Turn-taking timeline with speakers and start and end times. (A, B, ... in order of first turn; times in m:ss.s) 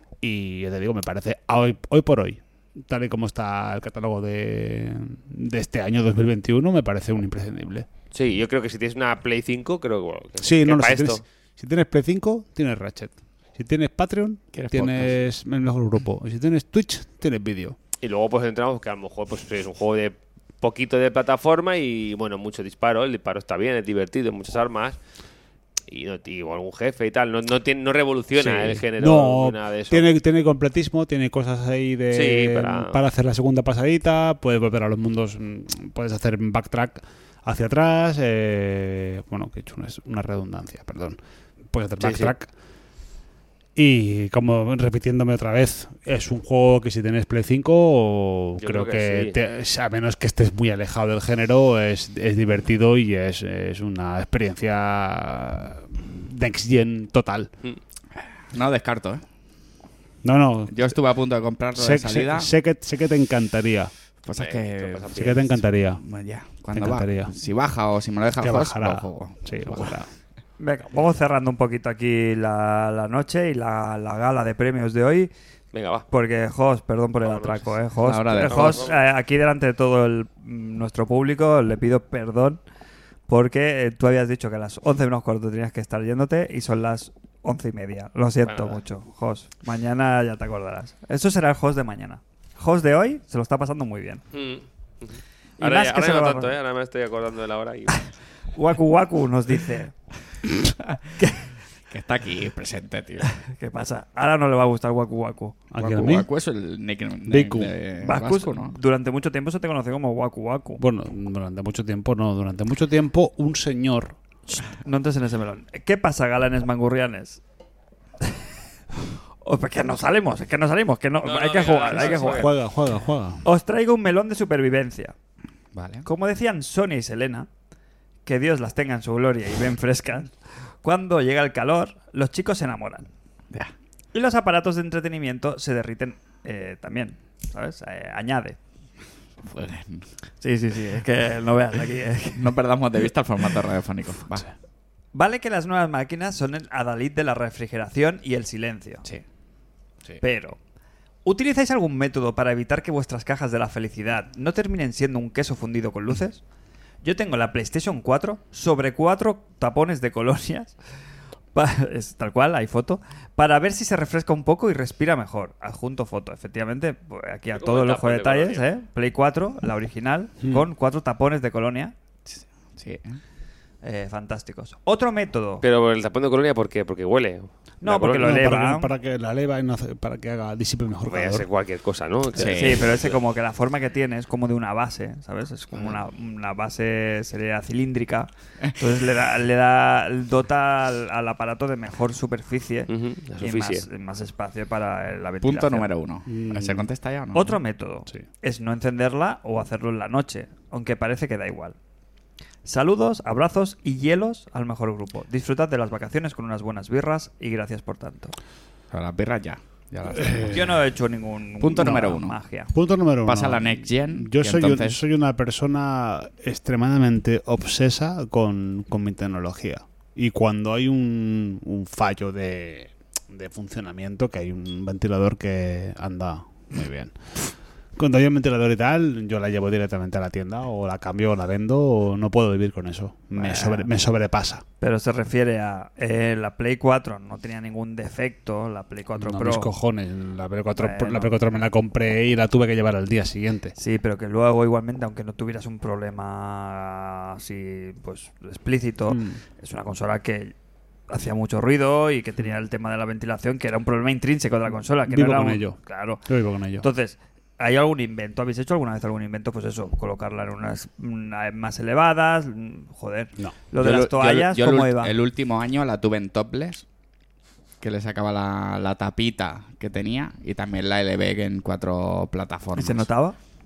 0:00.2-0:07.9 A
0:08.1-0:11.2 B
0:10.4-0:17.8 A
0:14.5-0:15.2 C
0:18.0-0:25.0 B
0:25.9-0:30.1 B
0:28.4-0:41.2 A
0:32.1-0:33.0 B
0:41.7-0:42.5 A
0:42.0-0:42.3 B
0:43.8-0:57.5 A
0:48.6-0:49.4 B
0:58.2-0:59.2 C
1:00.2-1:00.9 A
1:00.7-1:02.5 C
1:01.8-1:03.9 A
1:04.2-1:05.4 C
1:04.3-1:05.6 B
1:05.2-1:06.0 A
1:06.0-1:10.0 C
1:06.8-1:07.3 A
1:08.4-1:10.1 A
1:10.6-1:15.3 D
1:15.7-1:16.0 B
1:16.1-1:22.6 D
1:17.2-1:17.7 B
1:18.0-1:18.9 C
1:18.4-1:19.0 B
1:23.3-1:34.2 D
1:28.5-1:28.8 B
1:34.3-1:38.1 B
1:35.6-1:36.6 D
1:38.6-1:39.9 D
1:41.2-1:41.4 D
1:41.9-1:43.3 C
1:43.2-1:45.6 D
1:45.7-1:46.3 A
1:45.8-1:48.8 C
1:47.3-1:47.8 A
1:48.0-1:50.8 D
1:50.8-1:54.2 A
1:54.6-1:57.4 D
1:59.4-2:02.5 D
2:01.2-2:02.5 B
2:01.9-2:03.4 A
2:03.4-2:05.2 D
2:05.7-2:06.1 C
2:06.0-2:07.5 D
2:08.3-2:10.3 D
2:10.8-2:13.1 D
2:14.1-2:18.6 D
2:19.4-2:20.1 C
2:20.4-2:22.5 D
2:22.4-2:24.5 C
2:25.1-2:29.0 D
2:30.2-2:30.6 D
2:31.2-2:36.4 D
2:37.0-2:40.8 D
2:41.5-2:51.9 D
2:47.6-2:48.6 B
2:52.3-2:53.2 C
2:53.8-2:55.6 D
2:55.6-2:58.4 B
2:57.8-2:58.9 D
2:58.2-3:01.5 A
3:01.1-3:03.2 B
3:02.3-3:02.9 C
3:02.4-3:15.9 D
3:12.9-3:13.9 B
3:15.4-3:17.6 C
3:16.3-3:16.8 A
3:17.3-3:21.8 D
3:22.7-3:28.3 D
3:28.9-3:30.8 C
3:30.1-3:30.7 A
3:30.4-3:32.7 D
3:31.6-3:32.4 C
3:31.8-3:32.1 A
3:32.7-3:47.4 A
3:33.2-3:35.0 C
3:48.0-3:54.6 A
3:53.3-3:53.9 D
3:54.8-3:59.7 D
3:59.2-4:03.8 A
4:00.8-4:01.4 D
4:03.8-4:10.5 D
4:09.1-4:09.4 A
4:11.1-4:16.3 D
4:15.0-4:16.9 A
4:16.8-4:25.1 D
4:23.8-4:26.9 C
4:27.8-4:33.1 C
4:32.8-4:33.4 D